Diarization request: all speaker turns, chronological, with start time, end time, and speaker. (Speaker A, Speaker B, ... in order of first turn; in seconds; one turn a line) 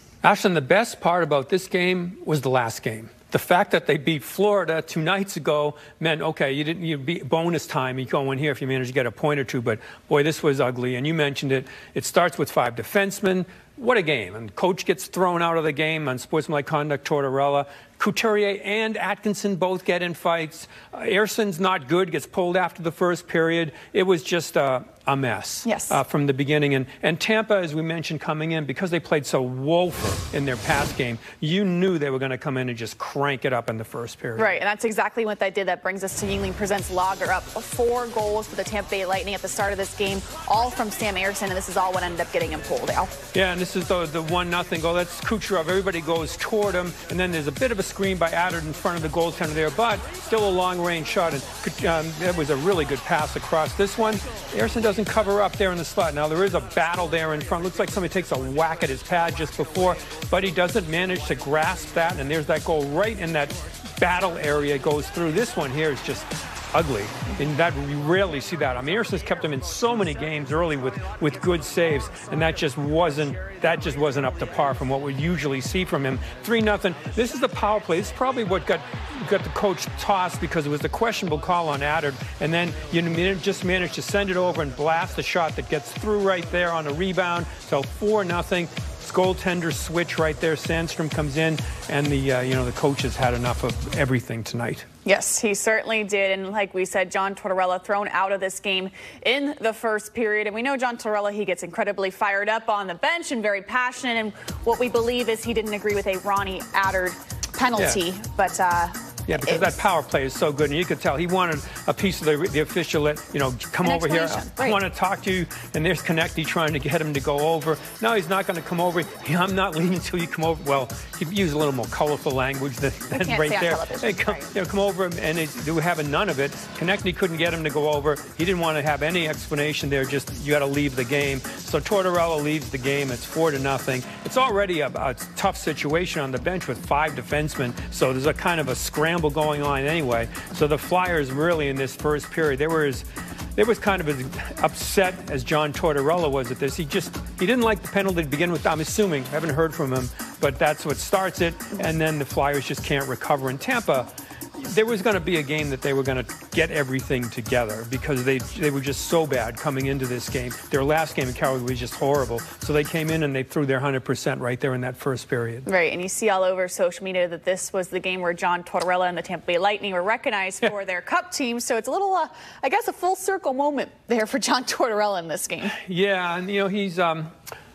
Speaker A: 0.2-34.5
Speaker B: 25.6-26.0
Speaker B: 34.4-43.1
Speaker A: 43.3-94.9
Speaker B: 95.0-109.8
Speaker A: 109.3-143.1
Speaker B: 113.8-114.8
Speaker B: 123.1-124.5
Speaker A: 143.6-165.7
Speaker B: 165.7-175.8
Speaker A: 175.8-177.3